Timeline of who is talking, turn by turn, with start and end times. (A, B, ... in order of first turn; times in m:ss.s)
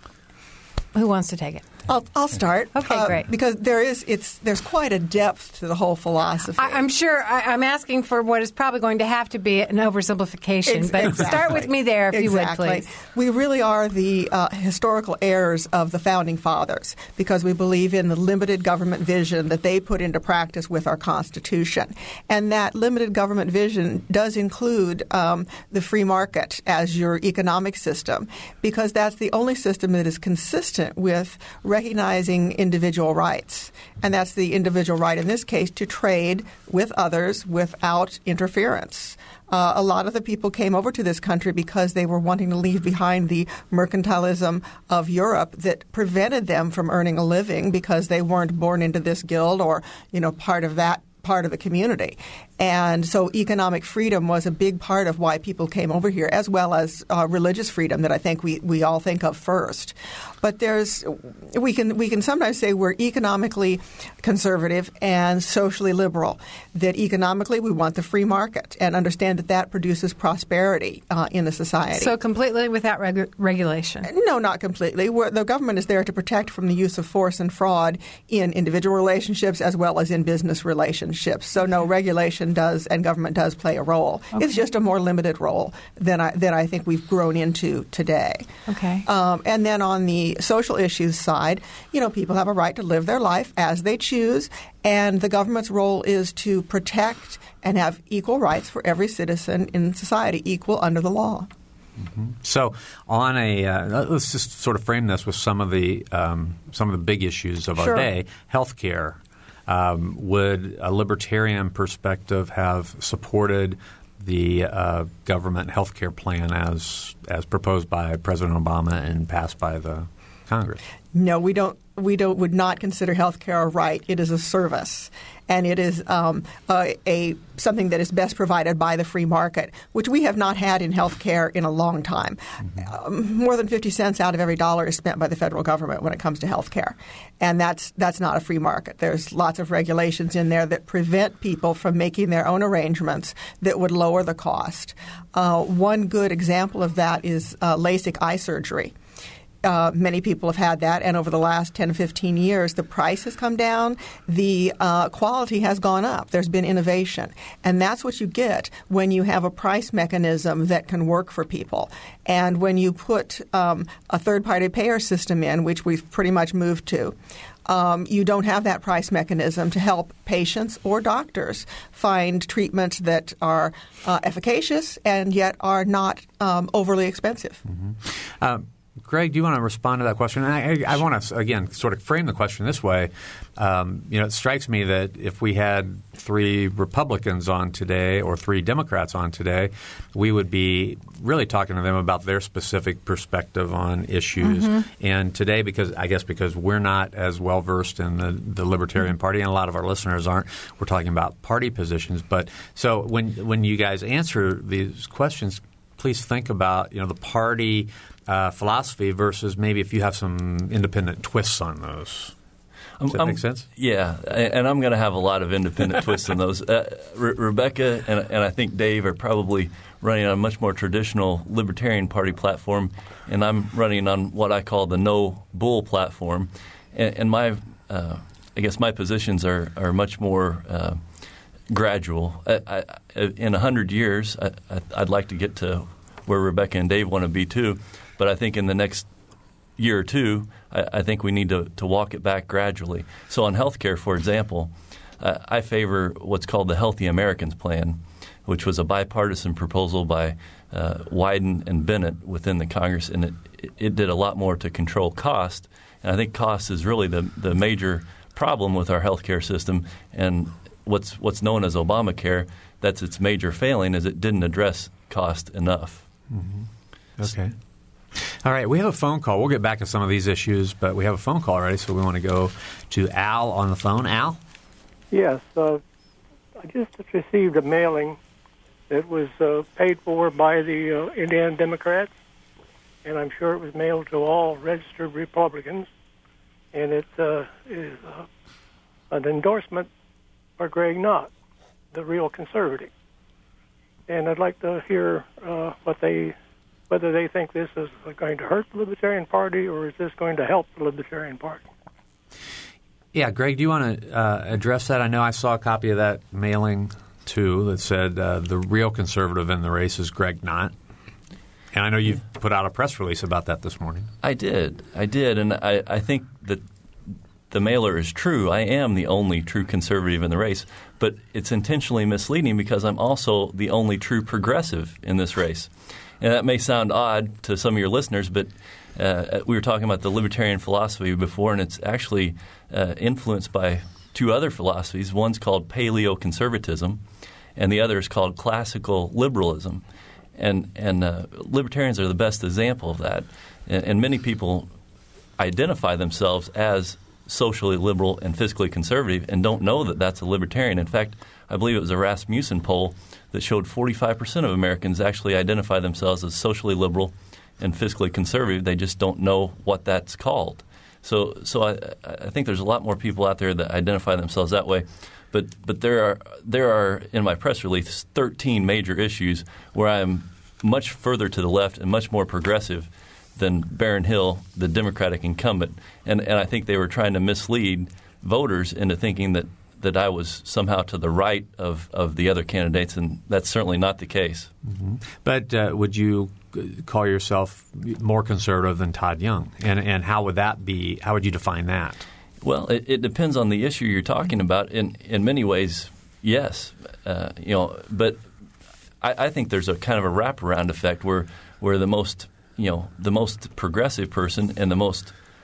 0:00.9-0:01.7 A
0:01.9-0:06.8 B
0:02.7-0:03.2 A
0:06.6-0:12.8 A
0:10.7-1:12.1 B
1:11.9-1:14.1 A
1:14.0-1:28.5 B
1:28.7-1:29.0 A
1:29.0-1:41.5 B
1:42.0-2:00.8 C
1:47.8-1:48.1 B
2:01.1-2:28.9 B
2:29.6-2:47.1 B
2:47.6-2:57.6 B
2:57.7-3:32.3 C
3:14.4-3:14.8 A
3:33.0-3:51.0 D
3:33.1-3:33.6 C
3:51.7-3:59.1 D
3:59.8-4:26.1 D
4:26.3-4:27.5 C
4:28.1-4:34.4 C
4:35.1-4:35.8 E
4:36.6-4:38.2 E
4:38.9-4:42.1 E
4:43.0-4:45.9 E
4:46.7-4:48.3 E
4:49.1-4:49.9 E
4:50.6-4:51.3 E
4:51.9-4:52.9 E
4:54.1-4:56.4 E
4:56.9-5:01.6 E
5:03.1-5:10.7 C
5:11.7-5:14.1 C
5:14.2-5:16.6 D
5:17.5-5:37.0 D
5:37.6-5:39.8 D
5:40.4-5:44.7 D
5:45.4-6:24.5 D
6:24.6-6:32.0 C
6:32.4-6:38.2 D
6:39.0-6:45.1 D